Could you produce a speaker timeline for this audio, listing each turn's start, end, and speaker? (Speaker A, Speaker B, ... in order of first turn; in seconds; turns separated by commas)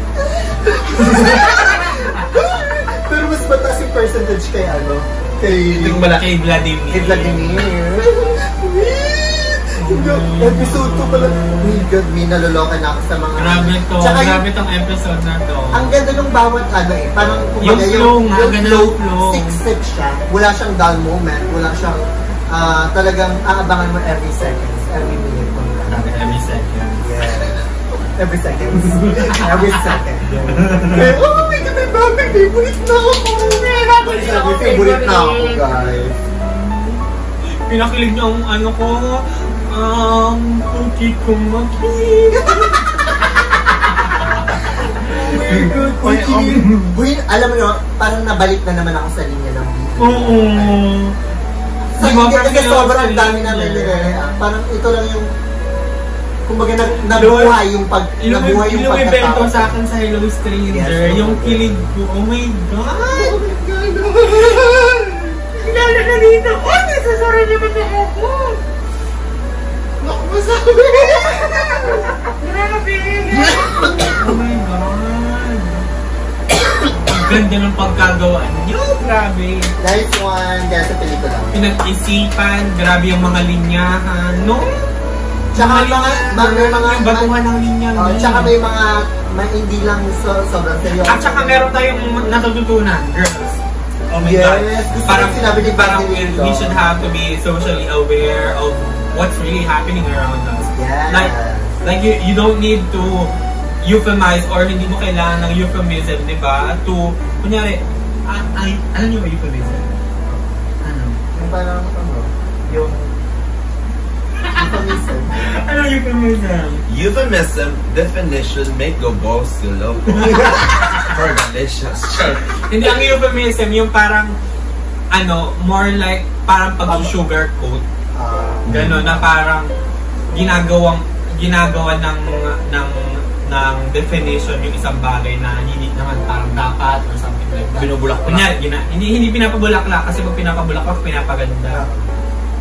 Speaker A: 0.2-6.0, Speaker B: 1.4-2.0, Speaker C: 5.5-6.2, Speaker B: 5.8-7.7, Speaker A: 6.9-14.4, Speaker B: 9.8-11.8, Speaker B: 13.3-15.9, Speaker A: 15.7-26.4, Speaker B: 17.6-19.6, Speaker B: 25.9-27.0, Speaker A: 27.0-27.6, Speaker A: 28.1-36.1, Speaker B: 28.8-31.3, Speaker B: 33.6-35.6, Speaker B: 36.4-37.0, Speaker B: 37.7-42.9, Speaker A: 44.6-50.8, Speaker B: 45.0-46.6, Speaker C: 45.4-46.9, Speaker B: 50.0-51.1, Speaker A: 51.9-55.3, Speaker B: 52.0-54.2, Speaker A: 56.5-59.8, Speaker B: 57.1-63.4, Speaker A: 60.7-61.9, Speaker A: 63.0-64.8, Speaker B: 64.3-64.7, Speaker B: 65.6-68.6, Speaker C: 70.0-71.6, Speaker B: 70.9-75.9, Speaker C: 73.3-74.1, Speaker B: 77.1-79.7, Speaker A: 79.8-81.6, Speaker B: 81.5-84.9, Speaker A: 85.5-87.3, Speaker B: 85.5-88.5, Speaker A: 88.0-91.7, Speaker B: 91.1-103.3, Speaker A: 94.1-96.9, Speaker C: 94.9-95.4, Speaker A: 100.7-101.8, Speaker B: 103.8-109.9, Speaker B: 110.8-111.2, Speaker A: 111.3-113.1, Speaker A: 114.5-115.3, Speaker B: 115.3-116.8, Speaker C: 116.9-122.5, Speaker B: 120.1-121.1, Speaker A: 120.2-120.6, Speaker B: 122.6-124.3, Speaker B: 125.1-127.8, Speaker A: 126.9-127.1, Speaker A: 128.2-129.2, Speaker B: 128.7-129.7, Speaker C: 128.7-129.1, Speaker B: 130.3-141.8, Speaker C: 137.7-138.5, Speaker A: 141.7-142.1